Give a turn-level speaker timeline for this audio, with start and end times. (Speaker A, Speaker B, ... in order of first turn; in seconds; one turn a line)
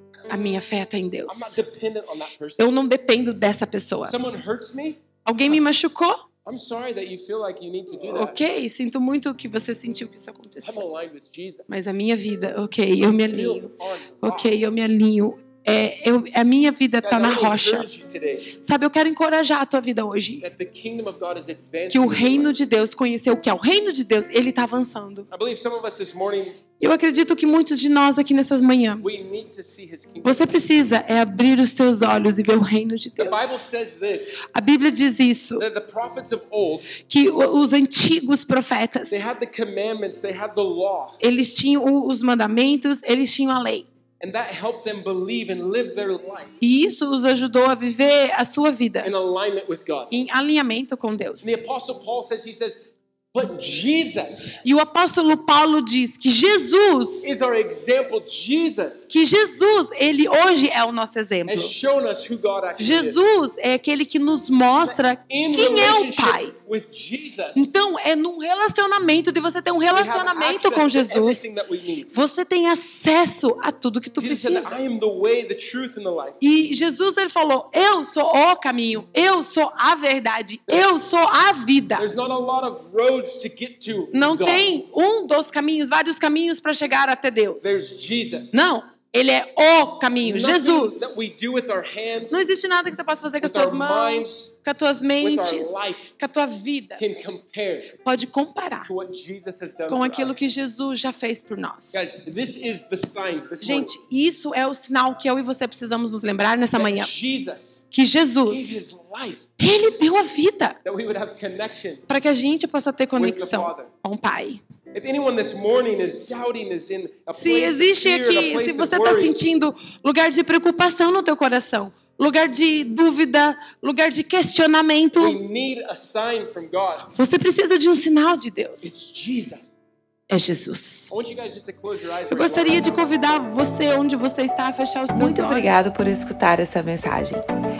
Speaker A: 0.3-1.6
Speaker B: 1.3-2.7
Speaker A: 2.6-4.2
Speaker B: 4.0-5.6
Speaker A: 5.2-6.2
Speaker B: 6.4-8.4
Speaker A: 8.0-10.8
Speaker B: 10.6-11.7
Speaker A: 11.7-17.9
Speaker B: 13.3-14.6
Speaker B: 17.0-18.5
Speaker A: 18.5-20.4
Speaker B: 20.4-22.5
Speaker A: 21.9-25.3
Speaker B: 25.3-26.6
Speaker A: 26.8-29.1
Speaker B: 29.0-30.6
Speaker A: 30.2-33.7
Speaker B: 33.2-34.4
Speaker A: 34.4-35.6
Speaker B: 35.6-36.9
Speaker A: 37.0-39.3
Speaker B: 39.1-41.2
Speaker A: 41.2-43.9
Speaker B: 44.2-46.5
Speaker A: 46.6-49.1
Speaker B: 49.0-50.2
Speaker A: 50.1-51.6
Speaker B: 51.4-52.8
Speaker B: 53.3-54.6
Speaker A: 54.6-57.4
Speaker B: 57.2-59.1
Speaker A: 59.1-61.7
Speaker B: 61.5-63.2
Speaker A: 62.8-66.5
Speaker B: 64.8-67.7
Speaker A: 67.5-71.5
Speaker B: 69.9-72.1
Speaker A: 72.1-74.8
Speaker B: 74.2-76.4
Speaker A: 76.4-82.0
Speaker B: 82.0-84.8
Speaker A: 84.1-87.8
Speaker B: 87.6-88.6
Speaker A: 88.5-91.3
Speaker B: 90.2-92.5
Speaker A: 92.3-97.0
Speaker B: 93.4-94.5
Speaker B: 95.2-96.1
Speaker B: 97.0-98.0
Speaker A: 98.0-98.9
Speaker B: 98.9-100.4
Speaker A: 99.9-102.1
Speaker B: 101.9-104.0
Speaker A: 103.6-107.1
Speaker B: 106.8-107.8
Speaker A: 107.9-108.9
Speaker B: 108.5-109.4
Speaker A: 109.6-110.8
Speaker B: 110.8-112.0
Speaker A: 112.1-114.6
Speaker B: 113.2-113.9
Speaker B: 114.9-119.4
Speaker A: 117.3-125.4
Speaker B: 125.2-127.1
Speaker A: 127.1-128.9
Speaker B: 128.8-129.7
Speaker A: 130.3-131.1
Speaker B: 131.1-133.1
Speaker A: 132.3-135.9
Speaker C: 135.1-137.5